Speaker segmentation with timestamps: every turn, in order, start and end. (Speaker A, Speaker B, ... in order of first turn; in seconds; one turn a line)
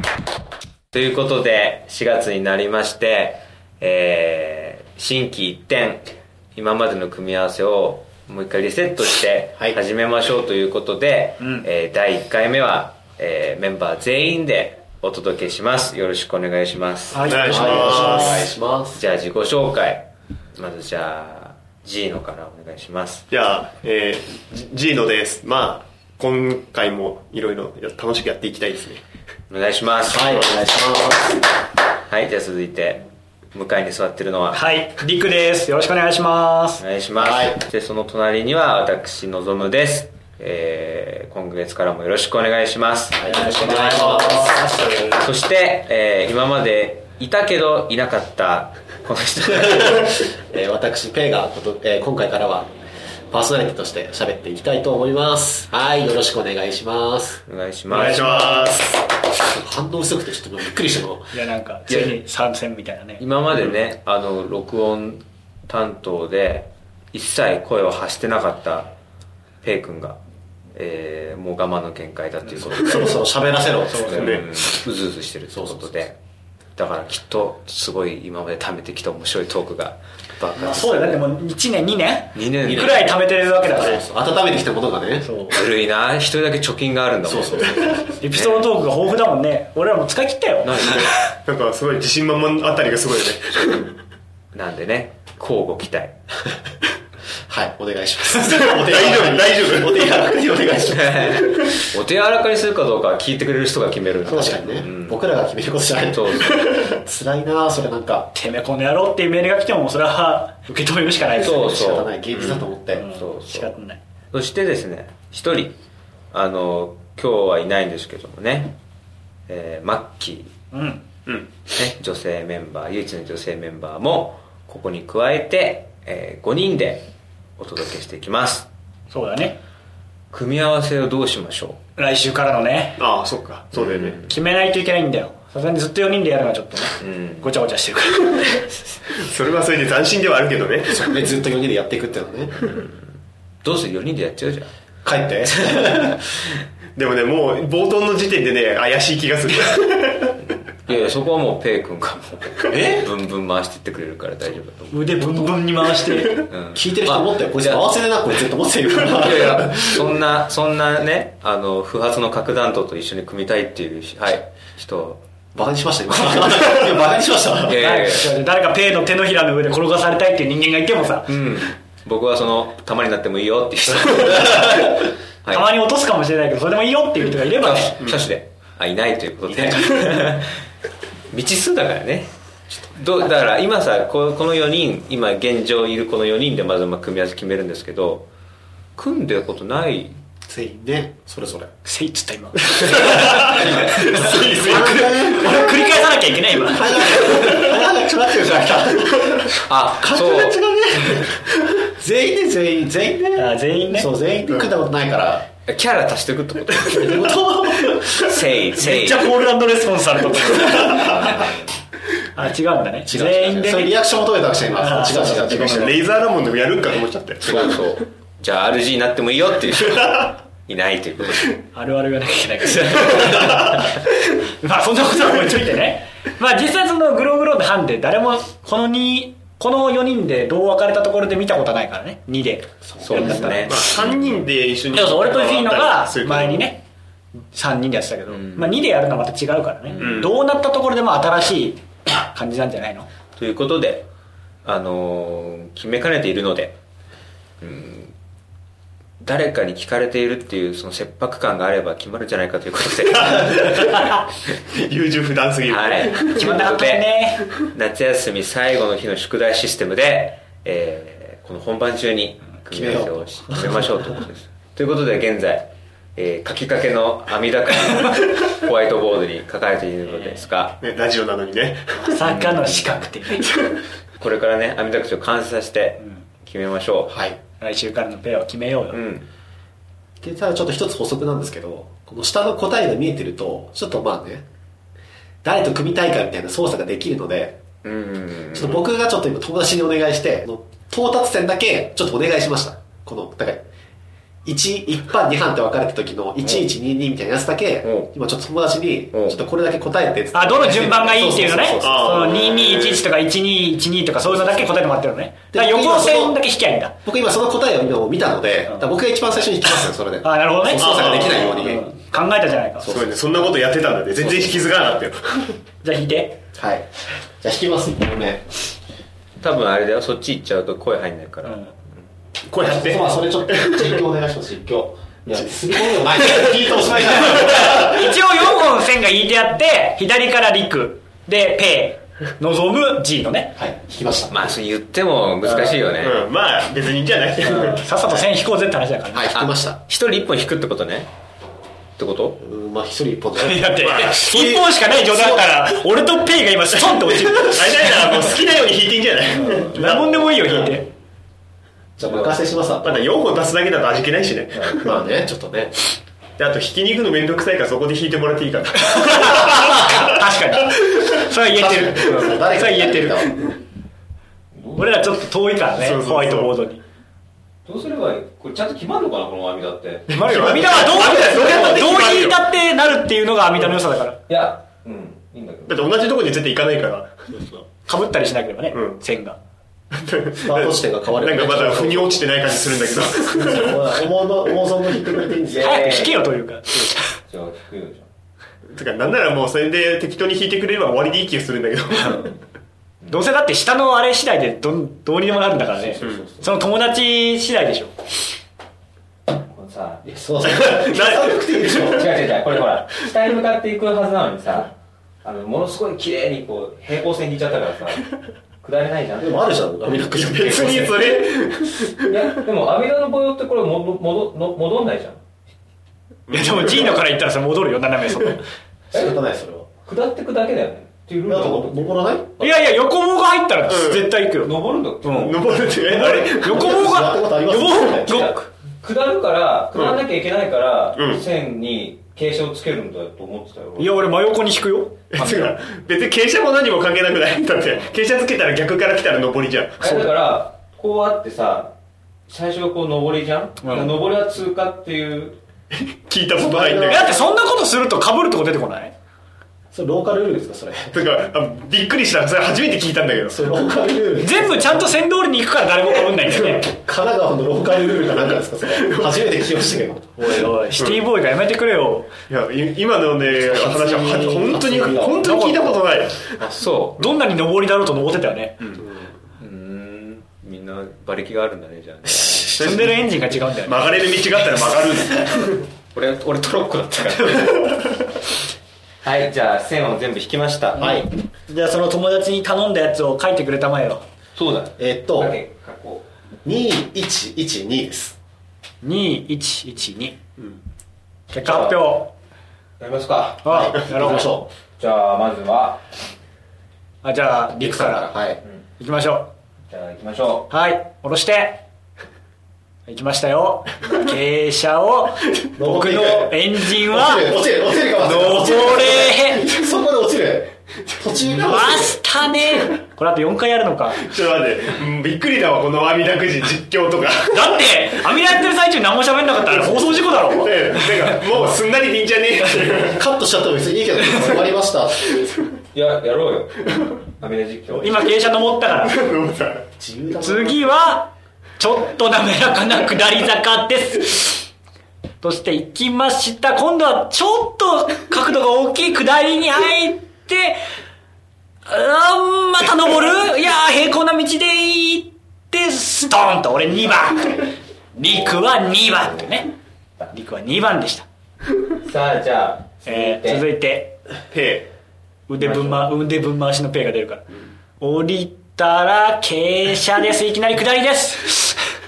Speaker A: 0.9-18.3
Speaker B: 11.4-11.7
Speaker B: 17.1-18.5
Speaker C: 17.2-18.4
Speaker D: 17.5-19.0
Speaker A: 18.9-23.3
Speaker C: 23.3-29.0
Speaker A: 29.5-30.4
Speaker D: 30.1-31.4
Speaker A: 32.1-34.6
Speaker B: 34.5-36.8
Speaker A: 36.8-43.9
Speaker D: 37.2-37.6
Speaker D: 43.2-44.9
Speaker B: 43.3-45.1
Speaker A: 45.1-50.1
Speaker D: 49.6-52.7
Speaker D: 53.3-57.4
Speaker A: 57.5-58.3
Speaker C: 57.9-59.1
Speaker B: 57.9-58.8
Speaker D: 59.5-61.3
Speaker B: 61.3-63.2
Speaker A: 61.9-62.2
Speaker A: 63.2-68.9
Speaker A: 69.6-70.2
Speaker A: 70.8-73.2
Speaker D: 72.7-74.3
Speaker B: 73.9-74.2
Speaker A: 74.0-76.2
Speaker C: 74.1-74.4
Speaker D: 75.5-76.0
Speaker A: 76.8-81.2
Speaker B: 80.6-84.0
Speaker A: 82.3-83.3
Speaker D: 83.6-85.3
Speaker B: 85.2-85.6
Speaker A: 85.5-88.7
Speaker D: 87.2-88.2
Speaker B: 88.2-90.9
Speaker A: 90.6-91.2
Speaker C: 90.8-94.0
Speaker A: 94.5-96.2
Speaker D: 97.5-101.7
Speaker C: 98.5-100.2
Speaker A: 100.9-105.2
Speaker D: 104.3-108.3
Speaker B: 104.3-104.8
Speaker A: 106.1-106.6
Speaker B: 108.3-111.8
Speaker A: 111.4-113.8
Speaker D: 111.4-113.1
Speaker B: 112.9-114.0
Speaker A: 114.3-115.8
Speaker A: 116.3-118.8
Speaker A: 119.5-120.5
Speaker B: 120.7-121.0
Speaker A: 121.8-128.7
Speaker B: 129.1-129.6
Speaker A: 130.3-131.8
Speaker B: 132.0-133.0
Speaker C: 133.0-134.2
Speaker A: 133.8-134.2
Speaker B: 134.2-138.8
Speaker A: 137.0-137.5
Speaker C: 139.1-141.2
Speaker D: 140.9-142.7
Speaker A: 143.6-144.7
Speaker D: 145.1-146.2
Speaker C: 147.0-150.5
Speaker A: 150.9-155.6
Speaker D: 152.7-153.1
Speaker B: 154.9-156.5
Speaker A: 156.5-157.8
Speaker D: 156.7-160.0
Speaker A: 159.1-165.2
Speaker D: 165.6-167.8
Speaker A: 167.7-168.3
Speaker B: 167.7-171.3
Speaker A: 171.3-175.7
Speaker B: 175.5-178.0
Speaker A: 177.6-180.6
Speaker D: 179.6-179.9
Speaker A: 181.3-182.3
Speaker A: 182.9-188.3
Speaker A: 189.0-190.2
Speaker D: 190.5-191.7
Speaker B: 191.8-197.3
Speaker C: 192.9-195.6
Speaker D: 193.6-205.5
Speaker A: 199.7-200.6
Speaker B: 203.3-204.1
Speaker A: 205.7-207.3
Speaker D: 206.8-208.4
Speaker A: 208.1-209.3
Speaker B: 208.8-211.5
Speaker A: 210.8-211.6
Speaker B: 212.2-214.0
Speaker D: 213.1-216.0
Speaker B: 214.7-216.0
Speaker C: 215.5-217.9
Speaker A: 217.4-221.5
Speaker C: 219.9-220.2
Speaker B: 221.7-233.9
Speaker A: 222.7-223.7
Speaker A: 233.0-234.1
Speaker D: 233.1-233.6
Speaker C: 233.4-236.7
Speaker B: 234.9-236.8
Speaker B: 237.5-243.1
Speaker A: 238.3-238.8
Speaker A: 239.9-240.3
Speaker C: 240.0-240.3
Speaker A: 243.4-244.1
Speaker A: 244.7-246.8
Speaker A: 247.6-248.1
Speaker A: 249.2-253.7
Speaker C: 253.2-256.5
Speaker A: 255.7-270.8
Speaker B: 256.2-257.4
Speaker D: 262.7-264.1
Speaker C: 270.8-272.0
Speaker B: 271.9-273.5
Speaker A: 272.2-272.9
Speaker A: 274.2-277.1
Speaker D: 277.1-277.4
Speaker B: 277.6-279.0
Speaker A: 278.9-279.2
Speaker D: 280.2-284.4
Speaker D: 285.4-287.6
Speaker A: 287.8-288.8
Speaker D: 288.5-293.6
Speaker D: 294.4-302.4
Speaker A: 297.8-298.1
Speaker A: 299.1-299.4
Speaker B: 300.3-306.9
Speaker C: 301.8-302.8
Speaker A: 302.5-303.0
Speaker D: 304.3-304.7
Speaker D: 305.5-306.4
Speaker D: 307.0-311.9
Speaker B: 310.2-312.9
Speaker C: 310.8-311.6
Speaker C: 312.8-315.6
Speaker D: 312.8-313.1
Speaker B: 315.8-316.4
Speaker D: 316.5-318.4
Speaker A: 319.4-321.6
Speaker B: 321.4-321.7
Speaker C: 322.5-323.9
Speaker D: 322.5-328.1
Speaker C: 325.3-327.7
Speaker B: 327.3-333.5
Speaker D: 333.6-334.3
Speaker A: 334.3-336.2
Speaker C: 336.0-337.9
Speaker B: 337.5-339.3
Speaker D: 339.1-339.8
Speaker A: 339.3-341.1
Speaker A: 342.0-342.4
Speaker D: 342.4-345.7
Speaker B: 343.4-348.2
Speaker C: 343.8-344.5
Speaker C: 346.8-350.6
Speaker B: 349.3-350.9
Speaker D: 352.0-353.1
Speaker A: 352.0-352.4
Speaker C: 352.8-355.0
Speaker A: 354.5-354.8
Speaker D: 354.8-355.7
Speaker C: 356.4-360.1
Speaker B: 358.8-363.3
Speaker D: 361.5-363.4
Speaker A: 364.5-365.2
Speaker B: 364.8-366.8
Speaker C: 365.8-366.5
Speaker A: 367.6-371.5
Speaker C: 370.1-372.4
Speaker B: 370.1-374.2
Speaker A: 374.3-375.9
Speaker C: 375.7-377.1
Speaker B: 377.4-379.4
Speaker C: 378.7-379.0
Speaker C: 379.9-383.8
Speaker D: 380.4-382.3
Speaker D: 383.2-386.0
Speaker A: 385.4-386.3
Speaker B: 385.6-387.0
Speaker A: 387.2-388.1
Speaker C: 388.7-392.3
Speaker B: 392.0-392.3
Speaker B: 393.1-397.9
Speaker A: 395.9-396.4
Speaker A: 399.4-400.1
Speaker D: 400.0-402.1
Speaker C: 400.4-402.0
Speaker A: 401.7-408.1
Speaker A: 408.6-409.4
Speaker D: 409.2-411.0
Speaker C: 410.1-412.1
Speaker A: 412.1-415.2
Speaker C: 416.3-417.0
Speaker B: 416.3-418.4
Speaker D: 418.9-419.7
Speaker A: 418.9-419.2
Speaker A: 419.8-421.9
Speaker D: 421.2-422.4
Speaker B: 422.4-428.4
Speaker C: 423.7-424.1
Speaker A: 424.4-425.4
Speaker C: 425.1-426.6
Speaker D: 426.4-428.3
Speaker A: 428.0-434.0
Speaker C: 429.7-430.0
Speaker C: 430.9-431.2
Speaker B: 433.8-435.0
Speaker C: 435.1-439.8
Speaker A: 435.1-435.6
Speaker A: 439.8-441.7
Speaker B: 439.8-440.1
Speaker A: 442.3-445.4
Speaker B: 443.6-444.0
Speaker C: 446.1-447.1
Speaker D: 446.4-447.2
Speaker B: 446.9-448.9
Speaker D: 449.7-450.9
Speaker C: 450.9-453.5
Speaker D: 453.3-454.9
Speaker B: 454.2-456.7
Speaker D: 456.6-460.1
Speaker C: 458.8-459.1
Speaker B: 460.2-462.1
Speaker C: 460.8-461.0
Speaker C: 462.3-466.4
Speaker D: 463.4-465.3
Speaker B: 463.7-465.8
Speaker A: 466.4-467.1
Speaker B: 467.0-468.6
Speaker D: 468.8-469.1
Speaker A: 469.4-472.8
Speaker B: 472.1-474.0
Speaker C: 472.6-472.9
Speaker C: 473.6-475.7
Speaker A: 475.9-477.8
Speaker A: 479.0-480.8
Speaker B: 480.8-484.0
Speaker D: 480.8-481.1
Speaker A: 484.4-486.0
Speaker D: 484.8-485.4
Speaker D: 486.4-488.1
Speaker B: 488.8-490.1
Speaker B: 491.3-492.1
Speaker A: 491.4-491.9
Speaker A: 492.8-495.8
Speaker B: 493.4-494.4
Speaker D: 493.4-494.5
Speaker B: 497.0-498.1
Speaker D: 497.6-498.4
Speaker B: 498.8-499.3
Speaker A: 499.7-500.5
Speaker B: 500.5-501.6
Speaker B: 502.9-507.4
Speaker D: 505.6-512.0
Speaker B: 508.0-509.5
Speaker B: 511.4-514.0
Speaker C: 514.0-517.9
Speaker B: 517.3-521.5
Speaker C: 519.5-523.0
Speaker D: 522.9-525.2
Speaker A: 525.7-528.1
Speaker B: 527.8-529.0
Speaker C: 528.9-529.7
Speaker D: 529.8-530.8
Speaker B: 530.2-534.5
Speaker B: 535.2-540.6
Speaker B: 541.6-549.5
Speaker B: 550.1-551.0
Speaker A: 551.8-553.5
Speaker B: 552.9-554.0
Speaker C: 554.3-554.7
Speaker B: 555.3-557.2
Speaker A: 555.4-555.9
Speaker B: 557.8-561.6